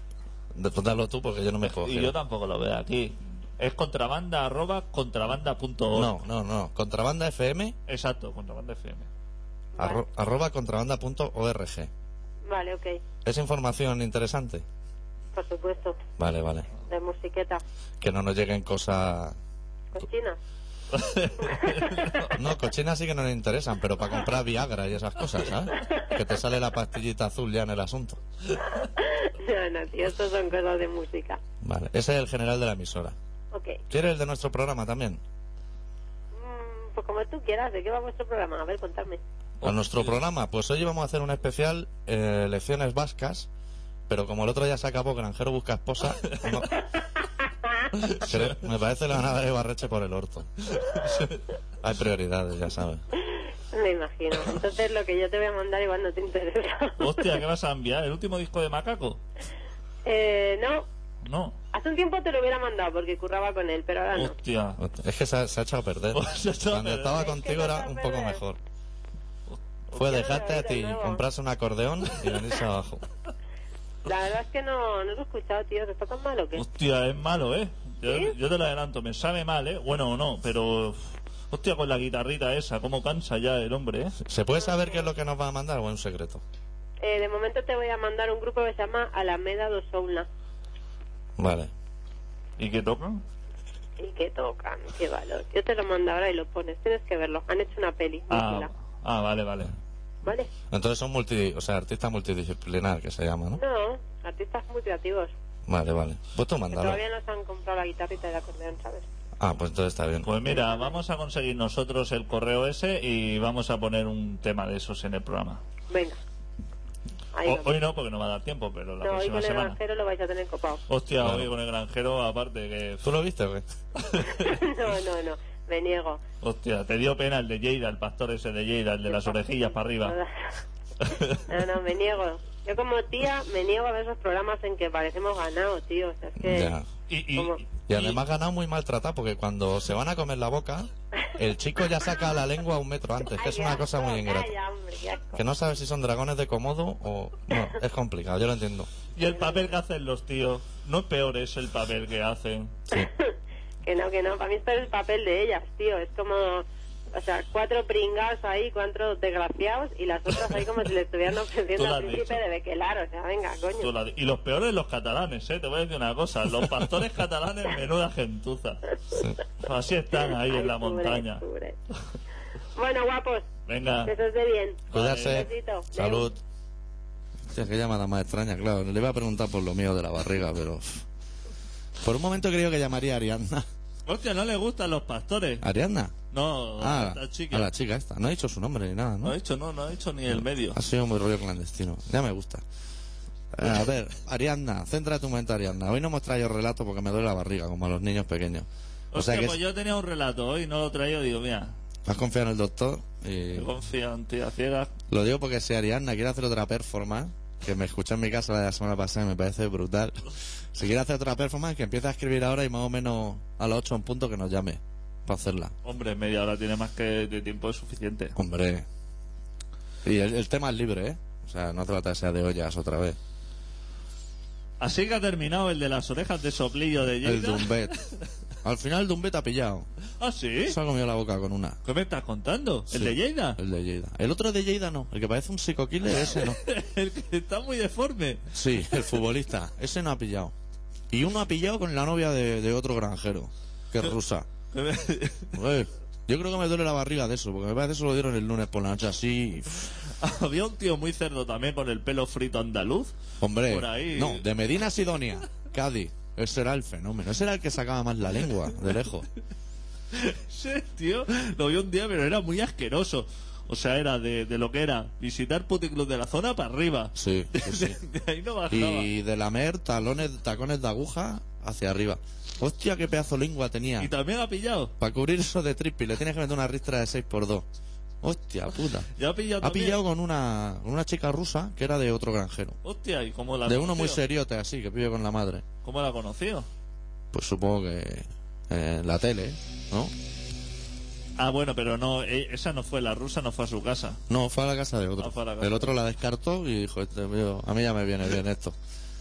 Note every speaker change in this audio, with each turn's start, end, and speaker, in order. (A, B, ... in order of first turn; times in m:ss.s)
0:00.5-0:02.1 A
0:01.6-0:06.2 B
0:05.9-0:07.8 A
0:07.9-0:09.1 B
0:09.8-0:10.0 C
0:09.8-0:11.9 A
0:12.4-0:13.0 C
0:13.2-0:14.6 A
0:15.4-0:16.0 C
0:16.2-0:16.7 A
0:16.9-0:17.6 C
0:18.0-0:19.4 A
0:19.9-0:20.4 C
0:20.9-0:22.3 B
0:21.4-0:22.1 C
0:22.3-0:28.2 A
0:28.8-0:31.4 C
0:31.6-0:33.2 A
0:33.5-0:33.8 C
0:33.9-0:35.2 A
0:36.4-0:39.2 C
0:39.6-0:40.1 B
0:39.6-0:43.5 A
0:44.1-0:46.8 A
0:48.0-0:48.5 B
0:48.1-0:50.5 A
0:50.8-0:51.4 B
0:51.8-0:53.0 A
0:53.3-0:57.3 C
0:57.0-0:59.2 B
1:00.0-1:00.9 C
1:01.2-1:01.6 B
1:01.7-1:04.3 C
1:04.1-1:04.8 B
1:04.8-1:08.6 A
1:06.1-1:07.3 B
1:07.1-1:08.4 C
1:09.9-1:13.0 A
1:10.0-1:11.2 C
1:14.0-1:16.6 C
1:16.6-1:21.0 B
1:18.0-1:18.3 C
1:21.5-1:24.2 B
1:24.2-1:26.4 A
1:24.7-1:25.0 C
1:27.0-1:30.3 C
1:31.4-1:31.7 A
1:32.6-1:33.2 B
1:34.0-1:38.7 C
1:38.3-1:39.8 B
1:40.2-1:40.5 C
1:40.7-1:43.6 A
1:43.6-1:45.3 C
1:45.7-1:47.0 A
1:46.7-1:49.1 C
1:49.4-1:50.3 A
1:50.2-1:55.6 B
1:50.5-1:51.0 C
1:55.9-1:56.2 C
1:57.3-1:57.7 C
1:57.4-1:59.8 B
1:59.0-2:00.8 C
2:00.9-2:03.1 B
2:01.2-2:01.5 A
2:03.0-2:03.6 A
2:04.0-2:04.5 B
2:04.3-2:06.2 C
2:06.4-2:10.2 B
2:09.1-2:10.3 C
2:11.1-2:11.4 B
2:11.5-2:16.8 C
2:16.4-2:16.9 A
2:17.1-2:18.2 B
2:17.9-2:24.5 A
2:23.2-2:25.4 C
2:25.4-2:28.9 A
2:29.2-2:32.8 B
2:29.2-2:29.7 C
2:32.9-2:33.3 C
2:33.8-2:43.9 C
2:41.8-2:42.4 B
2:43.8-2:48.8 B
2:49.1-2:49.4 A
2:49.6-2:51.4 B
2:50.4-2:51.8 C
2:52.8-2:53.4 C
2:53.7-2:54.1 B
2:54.0-2:56.3 C
2:54.9-2:55.5 B
2:54.9-2:56.4 A
2:57.5-3:01.0 A
3:02.0-3:03.7 A
3:04.1-3:05.6 B
3:05.6-3:06.2 A
3:06.3-3:07.7 B
3:06.8-3:09.4 A
3:09.2-3:10.8 B
3:10.3-3:12.6 A
3:13.5-3:19.6 A
3:19.1-3:21.7 B
3:22.1-3:23.7 A
3:23.5-3:24.9 B
3:25.1-3:35.7 A
3:35.8-3:38.4 B
3:38.4-3:38.9 A
3:40.0-3:43.2 A
3:44.8-3:48.2 B
3:47.2-3:48.0 A
3:48.6-3:49.9 A
3:50.2-3:50.8 B
3:50.6-3:51.8 A
3:51.8-3:53.6 B
3:52.9-3:56.6 A
3:56.2-3:58.5 B
3:58.5-4:00.5 A
4:01.1-4:04.5 A
4:04.7-4:05.6 B
4:05.5-4:09.9 A
4:10.2-4:13.1 B
4:13.4-4:19.3 A
4:13.7-4:14.4 B
4:20.1-4:29.1 B
4:27.2-4:28.0 A
4:28.7-4:34.1 A
4:34.0-4:34.9 B
4:35.0-4:37.7 A
4:38.2-4:39.1 A
4:39.2-4:40.0 B
4:39.6-4:42.8 A
4:42.8-4:44.2 B
4:43.6-4:45.6 A
4:45.8-4:46.7 B
4:47.3-4:50.1 A
4:51.4-4:54.2 B
4:54.3-4:58.8 A
4:55.2-4:55.9 B